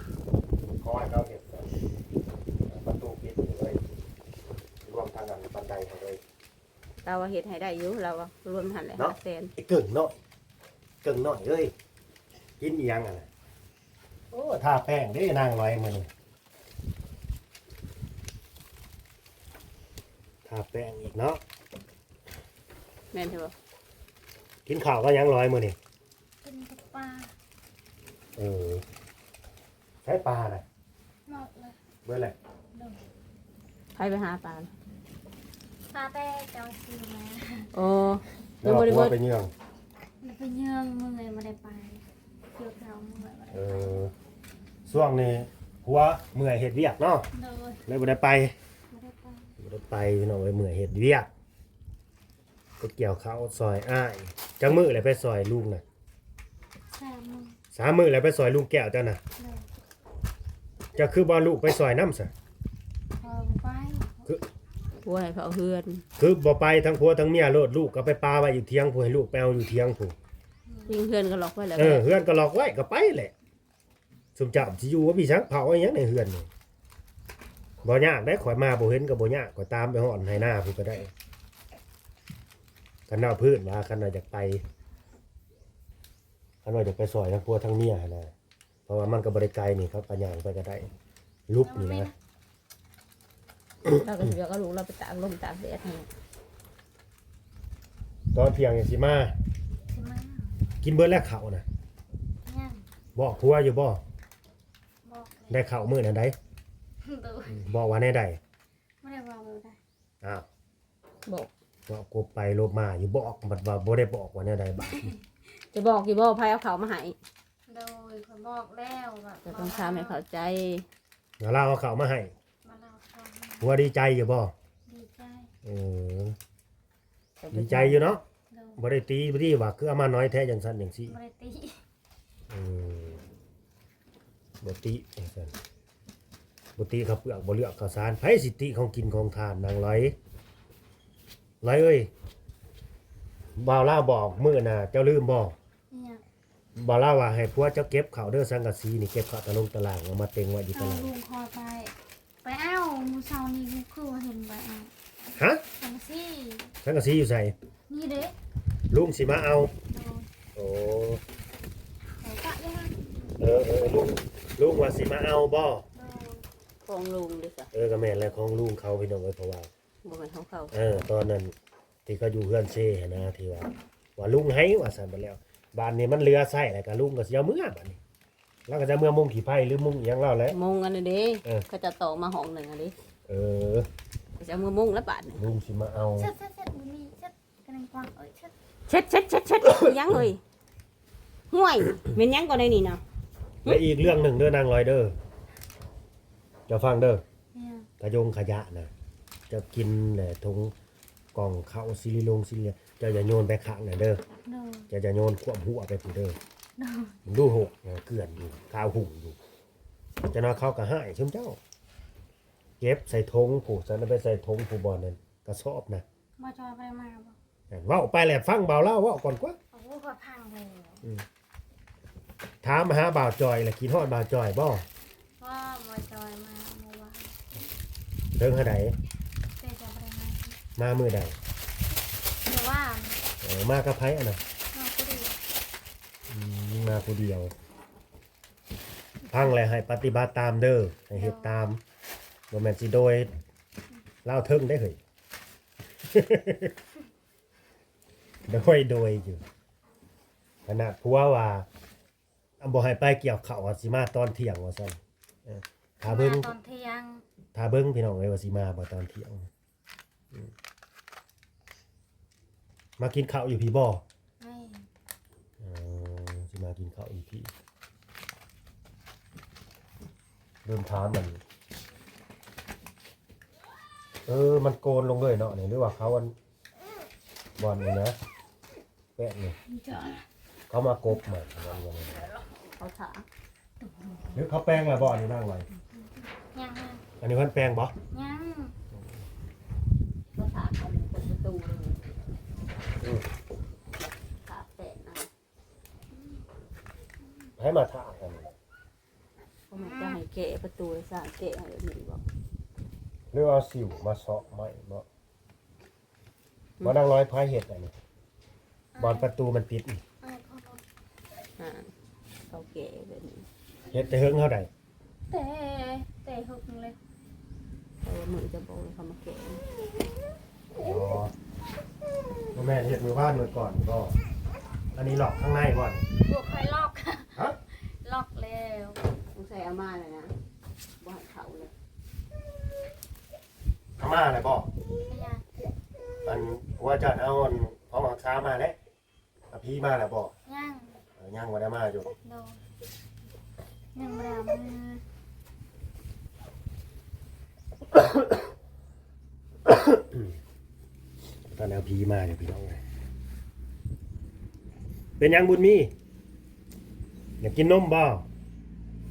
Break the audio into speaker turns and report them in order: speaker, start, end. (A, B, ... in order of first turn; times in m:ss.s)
0:00.6-0:01.8 A
0:02.7-0:03.8 A
0:04.8-0:06.2 A
0:07.0-0:09.5 B
0:09.0-0:10.2 A
0:11.0-0:11.7 A
0:12.6-0:13.3 A
0:14.3-0:16.1 A
0:20.4-0:21.4 A
0:23.1-0:23.5 B
0:24.7-0:25.8 A
0:26.4-0:27.3 C
0:28.4-0:28.8 A
0:30.0-0:30.6 A
0:31.3-0:31.8 C
0:32.0-0:32.4 A
0:32.7-0:33.0 C
0:34.0-0:34.7 B
0:35.9-0:37.7 C
0:37.7-0:39.1 B
0:38.6-0:39.5 A
0:40.2-0:44.1 C
0:43.5-0:44.1 A
0:44.9-0:47.3 A
0:47.3-0:47.8 C
0:47.9-0:48.6 A
0:48.9-0:49.5 C
0:49.6-0:51.3 A
0:52.8-0:55.8 A
0:56.9-0:57.6 C
0:57.7-0:59.2 A
0:59.4-0:59.7 C
1:01.0-1:02.3 A
1:03.2-1:04.3 C
1:05.0-1:06.0 B
1:06.2-1:10.2 A
1:10.7-1:11.0 C
1:10.9-1:12.0 B
1:11.8-1:13.3 A
1:14.4-1:16.5 A
1:17.8-1:21.1 A
1:23.1-1:24.6 A
1:26.6-1:28.3 A
1:28.9-1:30.9 A
1:31.5-1:32.1 A
1:31.6-1:32.1 C
1:33.8-1:34.3 A
1:33.9-1:36.1 B
1:38.3-1:39.4 A
1:39.9-1:40.6 C
1:40.8-1:41.6 A
1:42.5-1:42.8 C
1:43.2-1:44.0 A
1:45.0-1:45.6 C
1:45.5-1:46.4 A
1:47.0-1:47.6 C
1:47.5-1:48.4 A
1:49.0-1:49.8 C
1:50.2-1:50.5 A
1:51.9-1:55.1 A
1:55.7-1:57.2 B
1:57.7-2:00.2 C
1:59.4-2:00.8 B
2:01.4-2:02.3 A
2:02.6-2:03.7 C
2:03.6-2:04.5 A
2:04.9-2:05.5 C
2:05.6-2:06.4 A
2:07.4-2:08.0 B
2:07.5-2:08.2 A
2:08.5-2:08.8 C
2:08.8-2:11.2 A
2:11.1-2:11.8 C
2:12.5-2:13.2 A
2:14.6-2:15.5 A
2:16.8-2:20.2 A
2:21.6-2:22.1 A
2:23.6-2:25.6 A
2:25.9-2:26.2 C
2:26.8-2:31.1 A
2:30.7-2:34.9 C
2:35.4-2:35.6 A
2:35.8-2:36.7 C
2:36.8-2:37.6 A
2:37.9-2:38.4 C
2:38.9-2:39.7 A
2:39.9-2:40.3 C
2:40.6-2:41.2 A
2:42.2-2:43.7 C
2:43.4-2:45.8 A
2:46.0-2:46.4 C
2:46.8-2:47.7 B
2:47.7-2:49.7 A
2:50.0-2:50.7 B
2:50.7-2:51.6 A
2:52.1-2:58.0 A
2:58.7-3:00.6 A
3:00.5-3:03.0 B
3:03.3-3:03.9 A
3:04.4-3:05.4 B
3:05.4-3:06.3 A
3:06.2-3:08.5 C
3:08.9-3:10.4 B
3:09.6-3:10.3 A
3:11.5-3:13.0 B
3:13.6-3:15.2 A
3:16.7-3:17.2 A
3:17.5-3:17.9 C
3:18.0-3:18.9 A
3:19.5-3:20.7 A
3:21.3-3:24.2 A
3:24.4-3:24.9 C
3:24.9-3:26.4 A
3:26.8-3:27.2 C
3:27.3-3:29.4 A
3:30.3-3:31.6 A
3:32.8-3:36.0 A
3:36.4-3:37.4 C
3:37.7-3:39.6 A
3:39.7-3:41.0 C
3:42.6-3:44.9 A
3:45.4-3:47.6 C
3:48.4-3:49.0 A
3:49.6-3:50.6 C
3:50.8-3:51.4 A
3:52.4-3:53.2 C
3:53.4-3:54.4 A
3:54.7-3:55.4 C
3:56.3-3:57.5 A
3:59.3-4:01.8 A
4:01.1-4:01.5 C
4:02.5-4:03.3 A
4:04.2-4:05.0 A
4:06.1-4:06.8 A
4:08.5-4:09.4 A
4:10.7-4:11.7 A
4:12.6-4:16.5 A
4:16.0-4:17.2 C
4:17.5-4:19.5 A
4:23.0-4:24.0 A
4:24.4-4:24.9 C
4:25.6-4:27.5 A
4:30.6-4:31.4 A
4:34.3-4:36.4 A
4:37.6-4:38.2 A
4:39.2-4:39.6 A
4:39.7-4:40.3 C
4:40.7-4:42.3 A
4:42.8-4:43.3 B
4:43.8-4:44.4 C
4:44.3-4:45.7 A
4:46.0-4:47.0 C
4:47.2-4:47.9 A
4:48.1-4:48.7 C
4:50.4-4:52.0 B
4:53.0-4:53.3 A
4:54.0-4:55.3 B
4:56.1-4:56.4 C
4:57.6-4:58.6 A
4:59.7-5:02.2 B
4:59.8-5:00.2 C
5:03.3-5:05.1 A
5:06.8-5:07.9 A
5:09.0-5:09.3 C
5:09.0-5:10.0 A
5:10.2-5:10.8 C
5:11.6-5:11.9 B
5:12.5-5:13.5 B
5:13.9-5:14.7 A
5:15.3-5:17.0 C
5:18.0-5:19.6 B
5:20.8-5:21.3 A
5:22.6-5:24.1 A
5:25.0-5:26.0 A
5:26.2-5:29.0 C
5:29.4-5:30.3 B
5:31.0-5:31.7 B
5:34.0-5:34.7 A
5:35.1-5:35.4 C
5:36.2-5:38.8 A
5:39.5-5:40.3 A
5:40.5-5:41.0 C
5:41.2-5:42.1 A
5:42.2-5:42.6 C
5:44.0-5:45.0 C
5:47.9-5:48.5 A
5:49.6-5:50.4 A
5:51.5-5:52.8 A
5:55.2-5:55.9 A
5:57.4-5:58.3 A